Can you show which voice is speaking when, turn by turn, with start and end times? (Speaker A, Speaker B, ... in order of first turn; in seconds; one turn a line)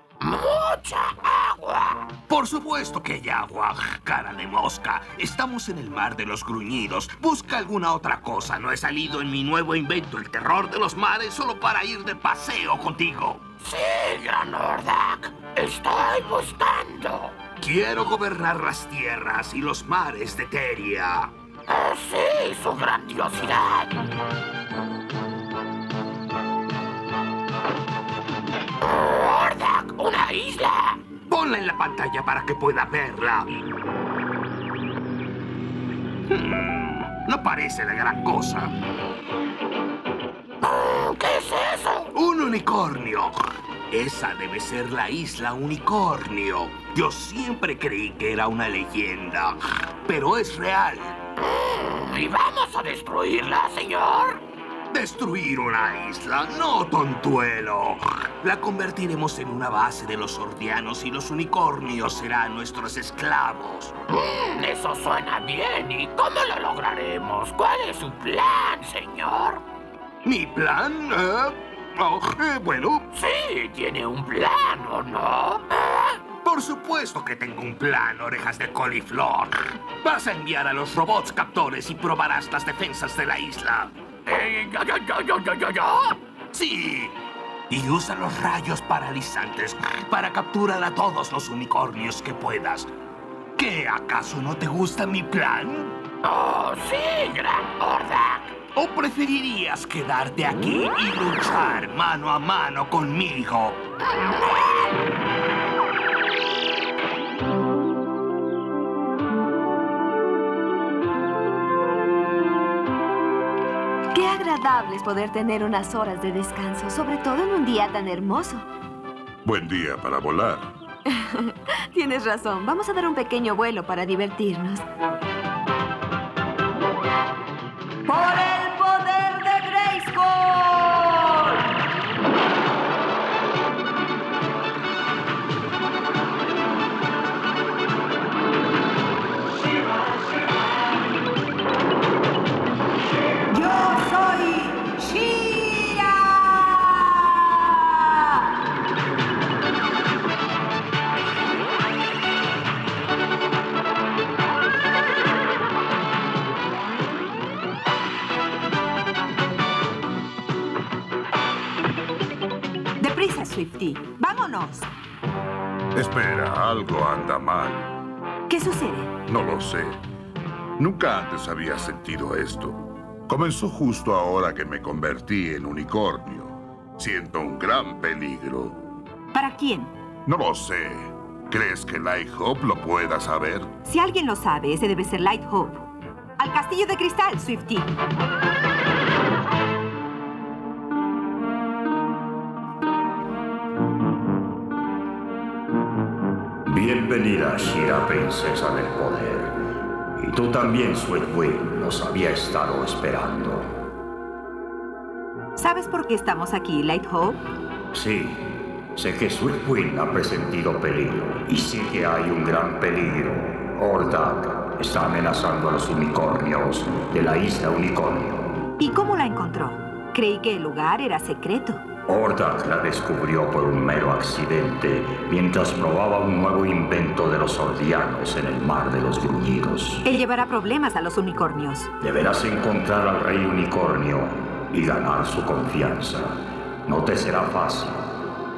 Speaker A: 0.2-2.1
Speaker B: 2.2-13.4
Speaker A: 13.6-17.4
Speaker B: 17.6-21.3
Speaker A: 21.7-24.0
Speaker A: 28.8-31.0
Speaker B: 31.2-33.6
Speaker B: 36.3-38.7
Speaker A: 40.6-42.1
Speaker B: 42.1-43.4
Speaker B: 43.9-51.2
Speaker A: 51.4-54.4
Speaker B: 54.9-64.0
Speaker A: 64.1-69.6
Speaker B: 70.2-73.1
Speaker A: 73.1-76.2
Speaker B: 76.4-87.2
Speaker B: 87.7-92.9
Speaker B: 93.6-96.0
Speaker A: 96.2-98.6
Speaker B: 98.7-103.8
Speaker A: 104.1-104.8
Speaker C: 114.1-118.7
Speaker D: 119.5-120.7
Speaker C: 121.1-124.8
Speaker C: 128.1-131.3
Speaker E: 143.5-148.4
Speaker E: 163.0-164.9
Speaker D: 165.9-167.9
Speaker E: 168.5-169.1
Speaker D: 169.3-170.0
Speaker D: 170.8-178.8
Speaker E: 179.3-179.9
Speaker D: 180.3-183.7
Speaker E: 183.8-185.8
Speaker E: 186.4-187.9
Speaker F: 196.7-199.6
Speaker F: 200.2-203.7
Speaker E: 205.6-207.4
Speaker F: 207.9-218.5
Speaker E: 218.8-221.8
Speaker F: 222.1-230.1
Speaker E: 230.0-231.9
Speaker F: 232.0-238.1